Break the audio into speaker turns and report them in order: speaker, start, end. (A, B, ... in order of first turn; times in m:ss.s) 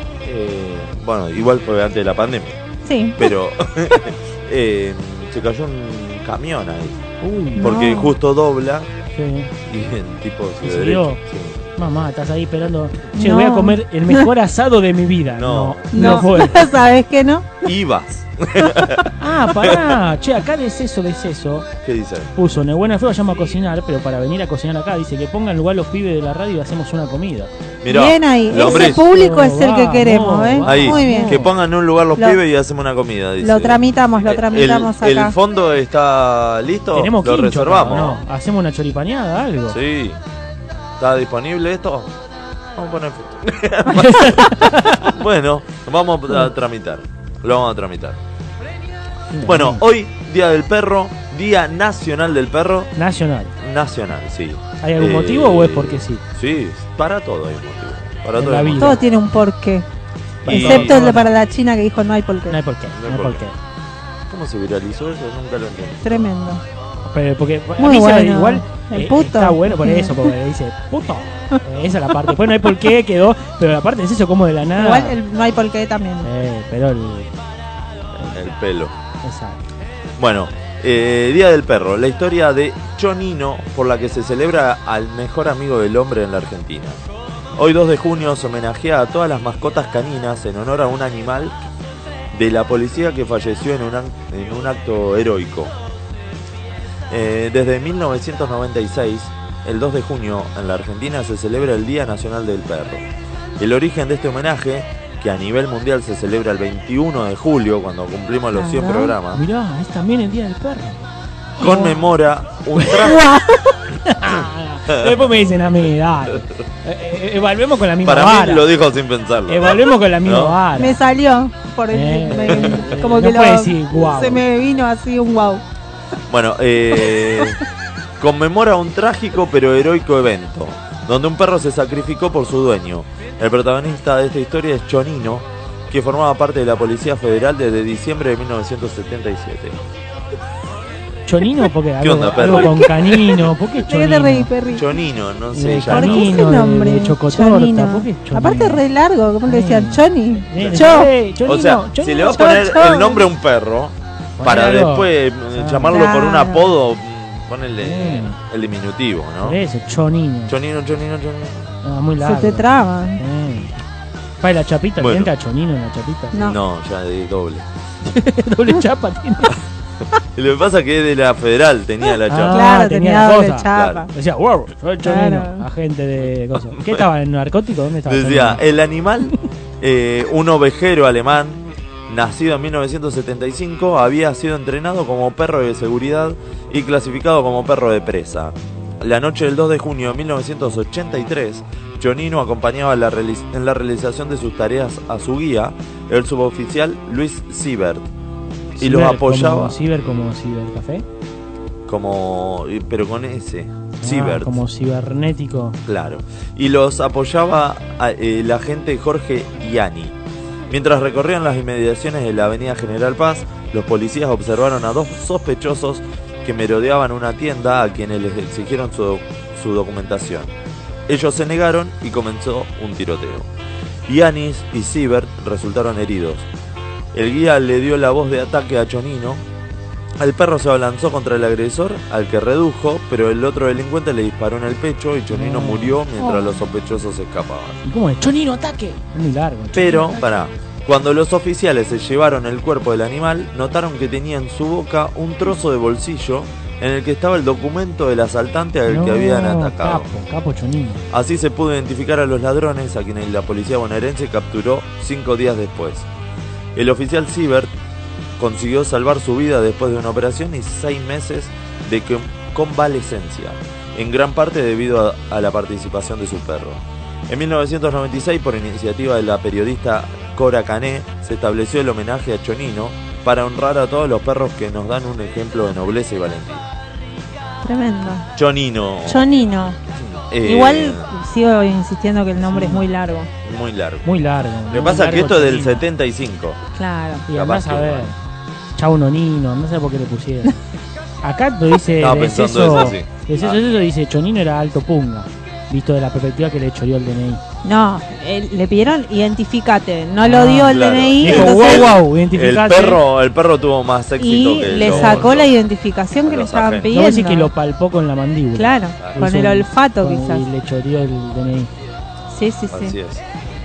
0:00.2-0:02.6 A
0:02.8-0:03.3 B
0:03.2-0:07.0 A
0:07.2-0:07.7 C
0:07.6-0:08.1 B
0:07.6-0:08.9 A
0:09.2-0:09.5 C
0:09.7-0:11.6 A
0:10.6-0:11.2 C
0:11.8-0:16.7 C
0:13.2-0:14.2 B
0:15.3-0:16.2 A
0:15.9-0:17.7 B
0:17.6-0:19.1 A
0:19.2-0:21.7 C
0:21.8-0:22.3 A
0:22.4-0:27.5 C
0:27.8-0:29.1 A
0:27.9-0:31.4 B
0:28.6-0:31.5 C
0:30.6-0:38.2 A
0:33.4-0:35.4 B
0:36.9-0:39.8 C
0:39.7-0:40.2 A
0:41.0-0:42.1 A
0:42.8-0:48.2 A
0:43.9-0:45.1 C
0:49.3-0:49.8 C
0:49.4-0:52.9 A
0:53.0-0:53.5 C
0:53.6-0:59.0 A
0:54.8-0:56.2 C
0:58.4-0:59.0 C
0:58.8-0:59.9 B
1:00.4-1:01.3 C
1:00.5-1:01.2 A
1:00.5-1:02.6 B
1:02.5-1:03.6 C
1:03.0-1:03.4 A
1:04.3-1:06.3 A
1:06.0-1:06.6 B
1:07.0-1:15.2 C
1:07.8-1:10.3 B
1:14.8-1:16.3 B
1:16.2-1:17.3 C
1:18.3-1:18.9 A
1:19.2-1:19.7 C
1:20.2-1:27.0 A
1:27.6-1:31.5 A
1:32.3-1:35.7 A
1:37.1-1:43.0 A
1:43.6-1:49.4 A
1:48.6-1:49.1 B
1:49.2-1:51.0 C
1:51.6-1:52.1 C
1:51.6-1:53.2 A
1:52.8-1:53.3 C
1:54.0-1:58.7 C
1:54.9-1:55.1 A
1:58.0-2:00.6 A
1:59.5-2:01.0 C
2:00.8-2:05.6 B
2:01.9-2:04.4 C
2:02.5-2:03.0 A
2:06.3-2:07.6 A
2:07.1-2:07.4 B
2:08.2-2:19.8 A
2:21.3-2:24.5 C
2:22.0-2:23.4 A
2:22.4-2:24.8 B
2:24.7-2:26.6 A
2:25.5-2:28.8 C
2:25.9-2:31.1 B
2:29.4-2:32.4 C
2:30.6-2:39.6 A
2:32.2-2:33.2 B
2:34.4-2:36.0 C
2:35.9-2:36.6 B
2:37.8-2:38.4 C
2:39.4-2:40.5 C
2:40.5-2:41.7 A
2:41.8-2:42.7 C
2:42.2-2:43.2 B
2:43.2-2:43.7 C
2:44.4-2:46.4 C
2:45.0-2:45.3 A
2:46.3-2:46.6 B
2:46.4-2:47.6 A
2:48.0-2:49.6 C
2:50.4-2:52.7 A
2:52.3-2:58.6 C
2:52.5-2:54.1 B
2:53.7-2:54.0 A
2:55.0-2:55.6 B
2:58.1-3:18.1 A
3:18.8-3:19.8 A
3:18.8-3:21.0 C
3:21.9-3:24.6 A
3:24.0-3:25.8 C
3:25.9-3:30.1 A
3:30.7-3:40.5 A
3:41.1-3:43.5 A
3:44.1-3:46.5 A
3:47.1-3:49.4 A
3:50.2-3:57.8 A
3:55.3-3:56.0 C
3:56.2-3:56.6 B
3:57.8-4:00.2 C
3:59.7-4:10.1 A
4:08.9-4:11.0 C
4:11.1-4:16.1 A
4:16.8-4:17.7 A
4:18.4-4:36.6 A
4:37.6-4:38.3 B
4:38.4-4:39.3 A
4:39.1-4:39.8 B
4:39.9-4:41.1 A
4:40.4-4:43.3 B
4:42.4-4:42.8 C
4:43.4-4:44.0 A
4:44.0-4:45.9 C
4:44.7-4:46.6 A
4:46.8-4:47.2 B
4:47.3-4:48.2 C
4:47.3-4:48.1 A
4:48.8-4:50.5 C
4:51.2-4:57.4 C
4:52.0-4:53.6 A
4:57.6-5:01.9 B
5:00.2-5:03.0 C
5:00.4-5:05.5 A
5:04.2-5:07.5 B
5:04.8-5:05.3 C
5:06.3-5:06.9 A
5:06.9-5:11.7 C
5:08.6-5:10.5 B
5:12.3-5:13.0 B
5:12.7-5:13.2 A